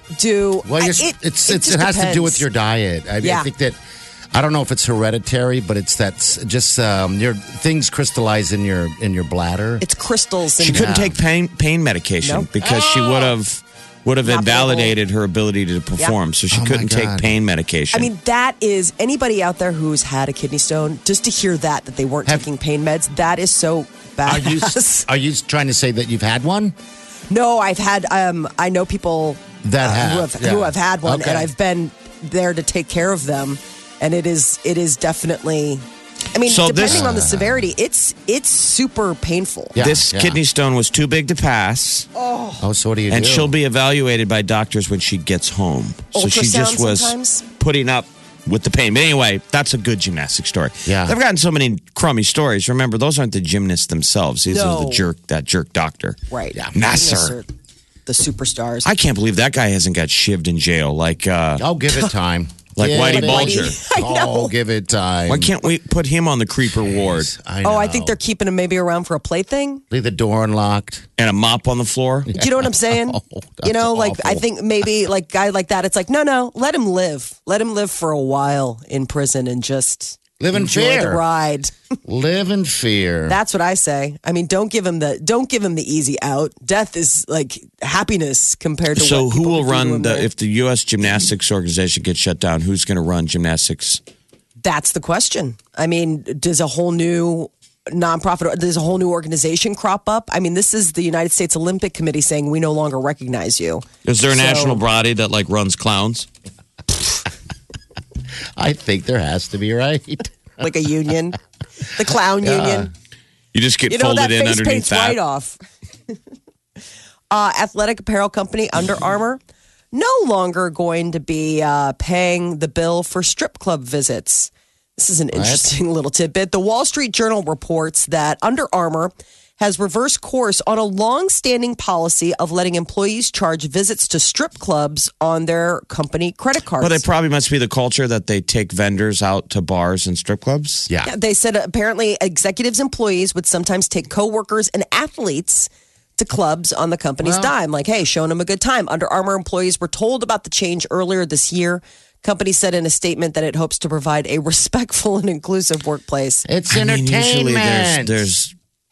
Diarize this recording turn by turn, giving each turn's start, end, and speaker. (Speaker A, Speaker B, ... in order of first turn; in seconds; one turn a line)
Speaker A: 0.1-2.5
Speaker B: 0.6-3.8
Speaker A: 3.2-3.5
Speaker B: 4.3-9.8
Speaker A: 9.8-11.0
Speaker B: 10.6-11.2
Speaker C: 10.6-18.1
Speaker B: 12.6-13.3
Speaker A: 14.2-14.9
Speaker B: 16.5-17.3
Speaker A: 17.9-25.1
Speaker B: 24.2-26.8
Speaker A: 27.3-39.7
Speaker B: 29.6-31.5
Speaker C: 36.5-37.1
Speaker B: 36.9-37.7
Speaker B: 39.8-40.4
Speaker C: 39.8-42.1
Speaker A: 42.1-42.6
Speaker B: 42.6-43.5
Speaker C: 43.1-56.2
Speaker A: 46.1-47.5
Speaker B: 50.9-51.2
Speaker A: 54.5-55.1
Speaker A: 56.3-57.5
Speaker C: 56.7-57.4
Speaker A: 58.1-58.9
Speaker C: 58.9-61.6
Speaker B: 61.6-65.7
Speaker C: 62.8-63.8
Speaker A: 63.0-64.5
Speaker C: 65.3-67.3
Speaker B: 66.9-68.2
Speaker A: 67.6-69.8
Speaker B: 69.9-71.1
Speaker C: 71.2-72.3
Speaker B: 72.3-74.4
Speaker A: 72.3-81.7
Speaker B: 80.4-81.2
Speaker B: 82.1-83.4
Speaker A: 83.3-90.3
Speaker C: 89.0-94.0
Speaker A: 94.6-104.8
Speaker C: 104.0-106.3
Speaker B: 108.6-110.3
Speaker A: 110.6-111.4
Speaker A: 111.9-112.9
Speaker B: 112.4-112.9
Speaker C: 113.5-115.2
Speaker A: 113.9-115.6
Speaker A: 117.3-119.4
Speaker A: 119.9-137.0
Speaker B: 125.3-125.7
Speaker C: 136.8-140.9
Speaker A: 141.1-156.5
Speaker B: 147.2-147.5
Speaker B: 156.5-158.3
Speaker C: 156.7-158.5